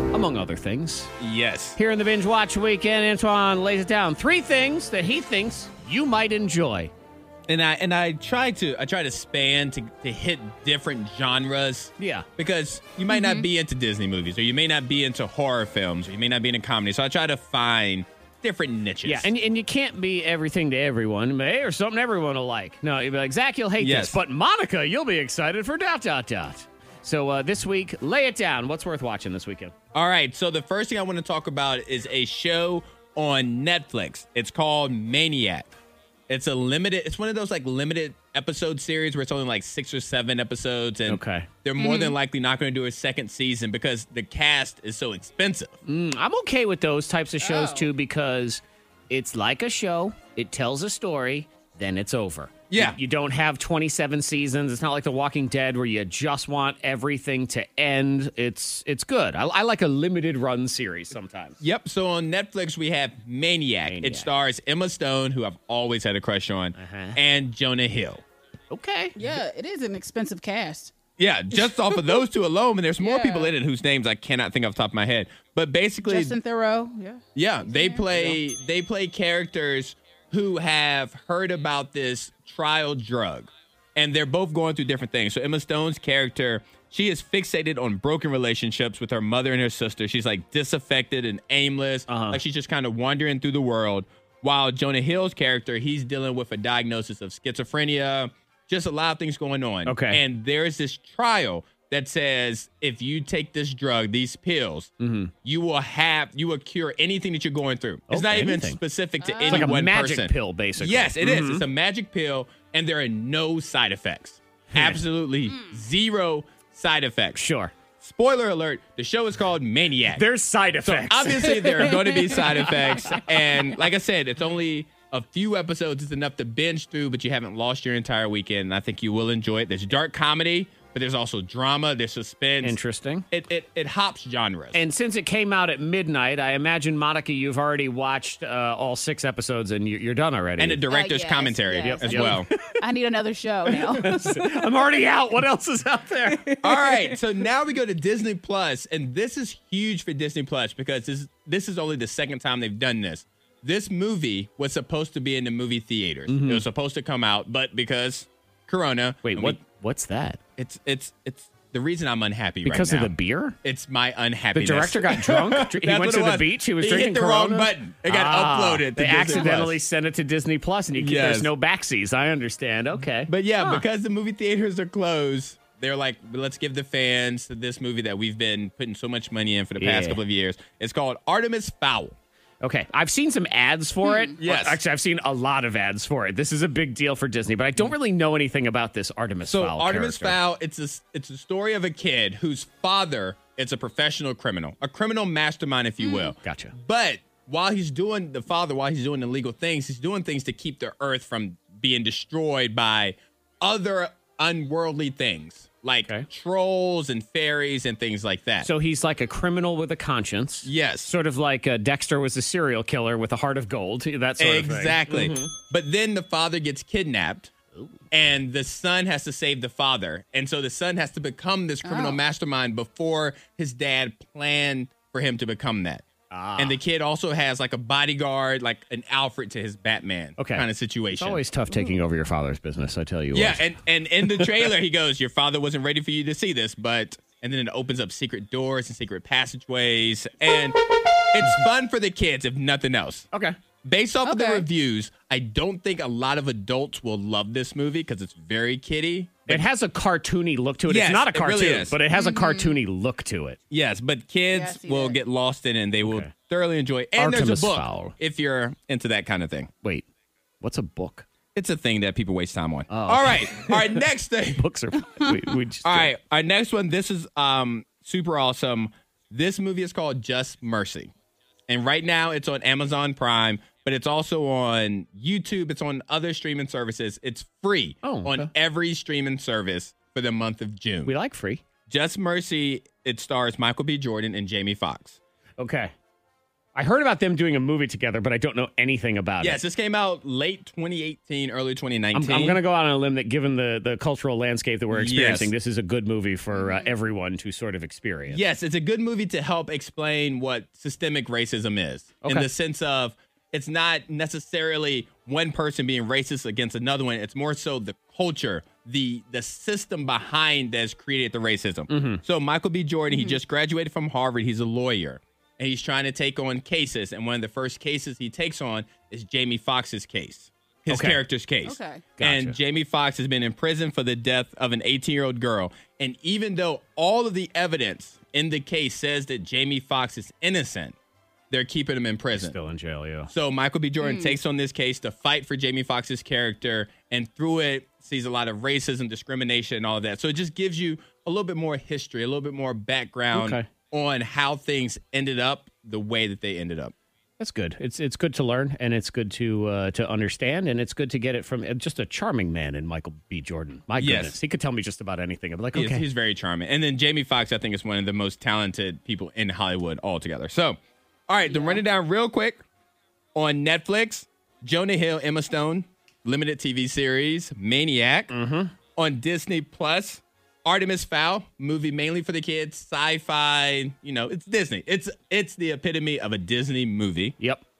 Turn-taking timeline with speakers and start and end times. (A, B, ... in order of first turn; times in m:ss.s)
0:00.1-0:01.1 A
0:01.2-0:01.8 B
0:01.8-0:06.9 A
0:07.5-0:19.3 B
0:12.0-0:12.3 A
0:13.1-0:13.4 C
0:19.0-0:29.7 A
0:23.8-0:24.2 B
0:29.9-0:35.7 B
0:36.3-0:45.8 B
0:41.1-0:41.5 A
0:41.8-0:42.2 C
0:45.8-1:01.6 A
0:47.4-0:47.9 C
0:52.7-0:53.0 B
1:01.6-1:08.2 B
1:03.8-1:04.3 A
1:06.8-1:07.2 A
1:08.7-1:09.2 A
1:09.2-1:10.9 C
1:11.2-1:16.4 B
1:13.0-1:13.5 C
1:16.0-1:18.4 C
1:17.4-1:44.9 B
1:32.1-1:32.4 A
1:39.8-1:40.2 A
1:45.0-1:45.3 A
1:45.4-1:57.4 B
1:48.1-1:48.8 A
1:49.2-1:49.7 C
1:49.4-1:51.7 A
1:54.7-1:55.0 A
1:57.4-1:57.7 A
1:58.0-2:00.2 B
2:00.1-2:03.3 A
2:00.8-2:12.8 B
2:01.6-2:02.6 C
2:12.6-2:13.3 A
2:13.3-2:14.8 B
2:14.7-2:20.9 A
2:20.6-2:22.5 B
2:20.9-2:24.2 C
2:22.0-2:22.5 A
2:23.7-2:26.9 A
2:26.6-2:39.6 B
2:36.3-2:36.6 A
2:39.2-2:40.4 A
2:40.6-2:43.1 B
2:42.6-2:43.6 A
2:43.6-2:49.8 B
2:44.5-2:53.8 A
2:51.0-2:51.5 B
2:53.3-3:02.2 B
2:59.8-3:00.2 A
3:02.6-3:10.4 A
3:04.0-3:04.4 C
3:04.4-3:04.8 B
3:09.4-3:28.7 B
3:16.0-3:16.3 C
3:16.4-3:16.7 A
3:28.6-3:35.5 A
3:30.6-3:31.1 B
3:34.4-3:37.5 B
3:38.1-3:46.0 B
3:41.8-3:42.2 C
3:46.3-3:46.8 A
3:46.6-3:51.4 B
3:50.4-3:50.6 A
3:51.2-3:53.7 A
3:53.3-4:03.3 B
4:03.8-4:09.7 B
4:04.2-4:04.7 C
4:09.5-4:13.6 A
4:10.9-4:12.0 B
4:12.1-4:12.8 C
4:13.7-4:19.7 B
4:14.5-4:15.2 C
4:16.0-4:16.3 A
4:17.2-4:18.2 A
4:20.6-4:21.3 A
4:21.6-4:24.7 B
4:22.9-4:24.0 A
4:24.6-4:26.1 A
4:25.8-4:31.1 B
4:31.7-4:41.1 B
4:38.0-4:38.5 A
4:41.0-4:41.6 A
4:41.9-4:45.2 B
4:45.6-4:45.9 A
4:46.8-4:49.6 A
4:49.4-4:52.6 B
4:52.1-4:58.4 A
4:54.9-4:55.5 B
4:56.5-4:56.9 C
4:58.3-5:31.0 B
5:11.9-5:12.2 A
5:13.1-5:13.4 C
5:20.9-5:21.2 A
5:21.6-5:22.0 C
5:22.2-5:22.6 A
5:31.5-5:32.6 B
5:32.3-5:33.3 A
5:33.3-5:46.9 B
5:34.0-5:34.4 C
5:43.3-5:43.7 A
5:47.4-5:56.1 A
5:54.0-5:54.4 B
5:55.7-6:02.6 B
6:01.5-6:01.8 C
6:03.4-6:08.3 B
6:08.3-6:08.7 A
6:09.0-6:17.4 B